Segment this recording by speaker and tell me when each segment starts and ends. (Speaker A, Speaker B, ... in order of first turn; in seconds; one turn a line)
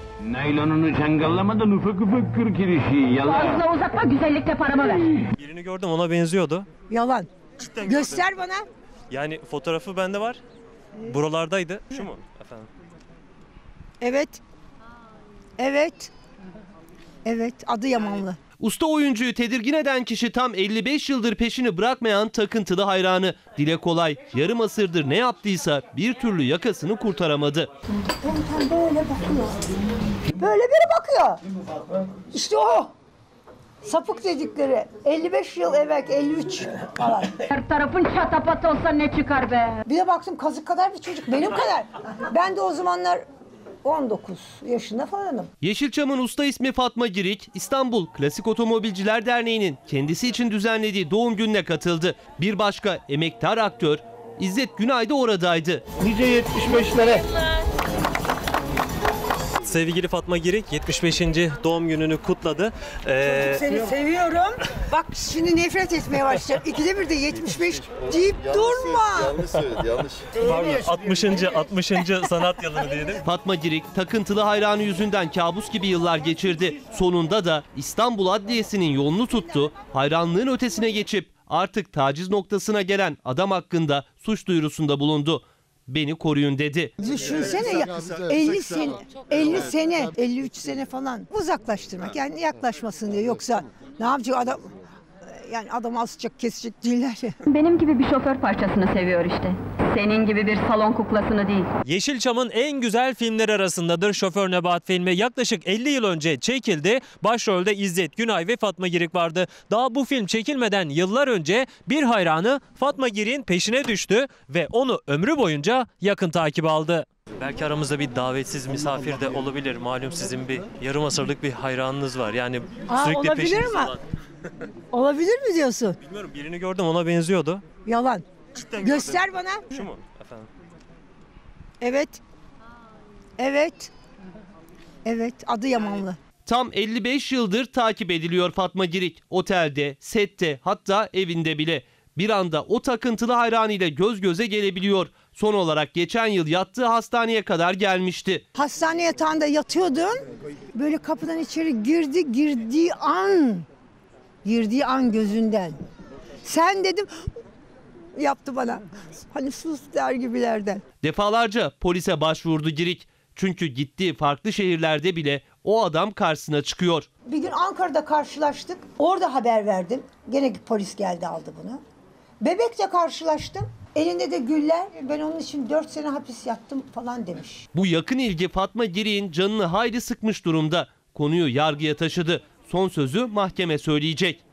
Speaker A: 0.2-3.6
Speaker B: 3.2-5.1
Speaker C: 5.4-6.7
Speaker D: 6.9-7.3
Speaker C: 7.6-8.2
Speaker D: 7.8-8.6
Speaker C: 9.1-10.4
Speaker C: 11.0-12.7
Speaker D: 14.0-14.4
Speaker D: 15.6-16.1
Speaker D: 17.2-18.4
Speaker E: 18.6-27.7
Speaker D: 28.1-29.7
Speaker D: 30.3-31.4
Speaker D: 32.2-32.9
Speaker D: 33.8-37.5
Speaker B: 37.5-39.8
Speaker D: 39.9-43.2
Speaker D: 43.8-45.5
Speaker E: 45.6-55.8
Speaker F: 49.9-50.2
Speaker F: 56.0-57.2
Speaker C: 59.6-63.6
Speaker D: 63.2-69.4
Speaker C: 69.5-73.2
Speaker E: 73.3-86.9
Speaker F: 75.4-77.4
Speaker F: 78.7-80.5
Speaker D: 87.0-94.7
Speaker D: 95.3-97.3
Speaker B: 97.5-101.7
Speaker C: 101.8-124.0
Speaker D: 122.9-123.9
Speaker D: 124.9-126.0
Speaker C: 126.0-127.6
Speaker D: 127.9-128.2
Speaker C: 128.6-130.5
Speaker D: 128.8-129.8
Speaker D: 131.8-132.2
Speaker D: 133.4-133.9
Speaker D: 135.1-136.2
Speaker E: 136.5-148.4
Speaker D: 148.6-150.2
Speaker D: 150.7-153.7
Speaker D: 154.4-155.8
Speaker D: 156.4-157.1
Speaker D: 158.2-160.8
Speaker E: 161.0-167.1
Speaker F: 165.6-166.3
Speaker D: 167.3-171.8
Speaker D: 172.4-177.7
Speaker E: 177.8-184.4
Speaker F: 182.4-182.7